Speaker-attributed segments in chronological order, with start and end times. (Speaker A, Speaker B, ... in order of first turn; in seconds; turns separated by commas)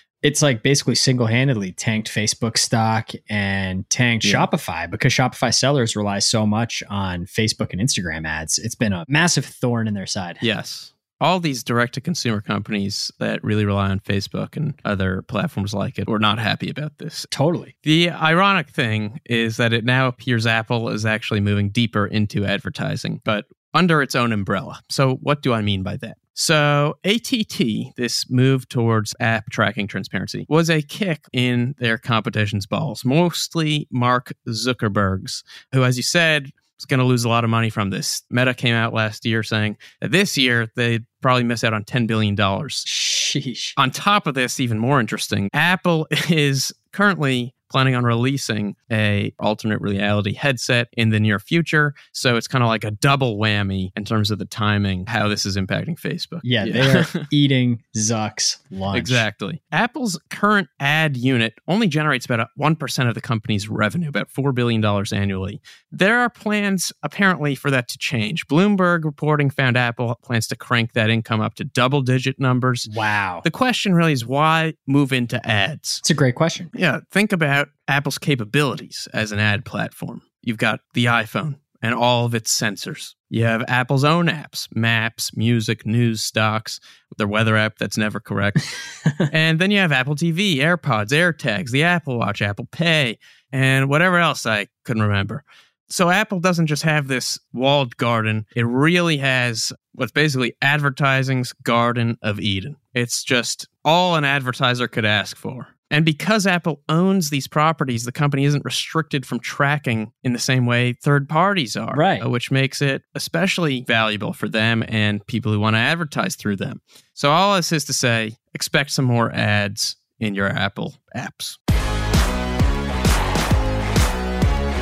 Speaker A: 0.2-10.4, Speaker B: 4.2-4.5, Speaker B: 10.4-17.3, Speaker A: 17.3-17.7, Speaker B: 17.8-42.9, Speaker A: 42.9-43.8, Speaker B: 43.8-57.2, Speaker A: 56.4-59.3, Speaker B: 58.9-72.9, Speaker A: 72.8-73.4, Speaker B: 73.4-76.0, Speaker A: 76.0-76.7, Speaker B: 76.7-121.6, Speaker A: 111.9-112.3